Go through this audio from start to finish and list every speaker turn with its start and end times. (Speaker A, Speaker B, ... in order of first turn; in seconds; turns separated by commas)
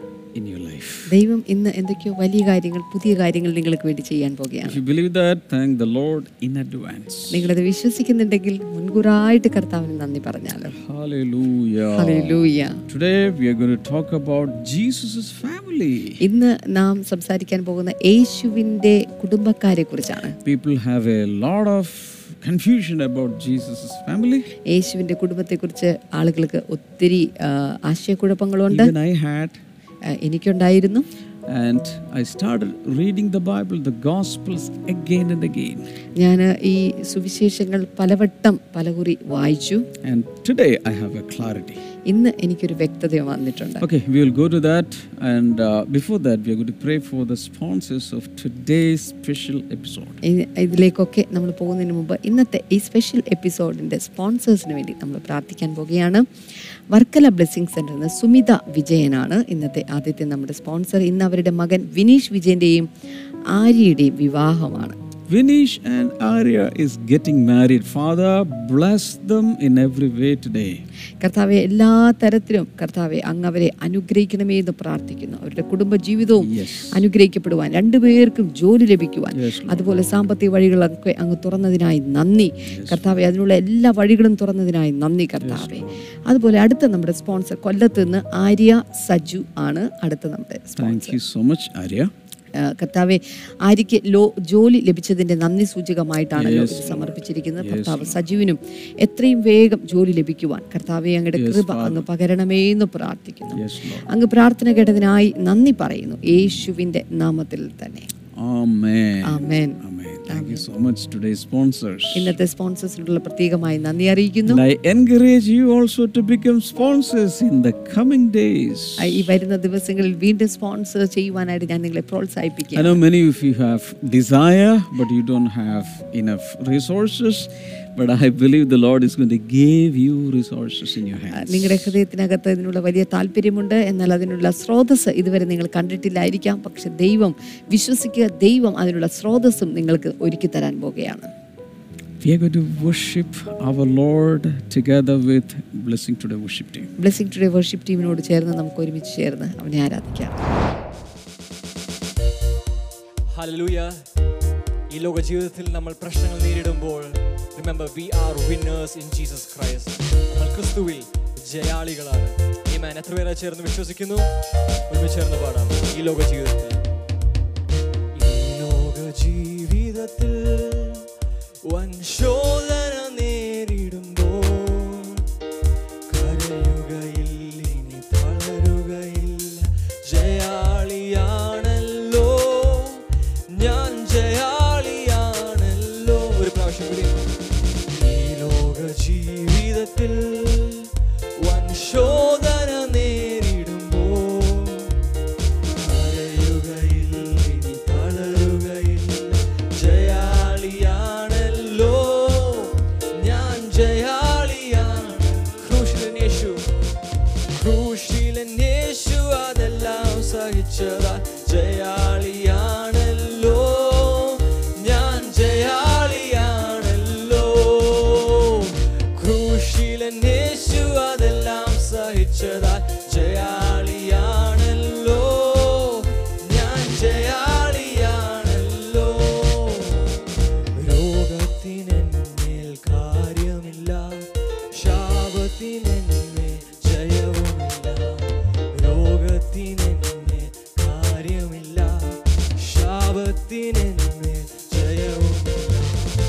Speaker A: 0.3-1.1, Speaker B: 1.1-4.8, Speaker A: 4.6-7.5, Speaker B: 7.3-10.7, Speaker A: 10.7-16.2, Speaker B: 11.9-12.8, Speaker B: 16.2-20.3, Speaker A: 20.4-24.5, Speaker B: 24.6-28.9, Speaker A: 28.7-29.6, Speaker B: 30.1-31.0, Speaker A: 31.5-35.9, Speaker B: 36.2-39.8, Speaker A: 40.0-41.8, Speaker B: 42.1-43.8, Speaker A: 43.8-50.2, Speaker B: 50.2-56.2, Speaker B: 56.9-62.9, Speaker B: 63.5-65.0, Speaker A: 65.3-70.8, Speaker B: 71.2-91.2, Speaker A: 76.4-77.0, Speaker A: 79.3-79.9, Speaker A: 82.7-83.2, Speaker A: 85.4-86.1, Speaker A: 90.8-92.1, Speaker B: 92.6-108.1, Speaker A: 96.3-98.2, Speaker A: 101.3-102.0, Speaker A: 103.5-104.1, Speaker A: 108.3-112.3, Speaker B: 109.2-110.6, Speaker B: 112.1-114.6, Speaker A: 114.5-119.2, Speaker B: 119.0-123.0, Speaker A: 122.7-131.9, Speaker B: 131.3-141.3, Speaker A: 142.2-146.9, Speaker B: 147.0-150.3, Speaker C: 153.3-154.0, Speaker C: 154.9-164.3, Speaker C: 164.9-166.8, Speaker C: 168.1-171.0, Speaker C: 171.7-175.2, Speaker C: 176.1-187.2, Speaker C: 187.9-194.9, Speaker C: 195.8-206.7, Speaker C: 207.5-230.2, Speaker C: 230.7-246.0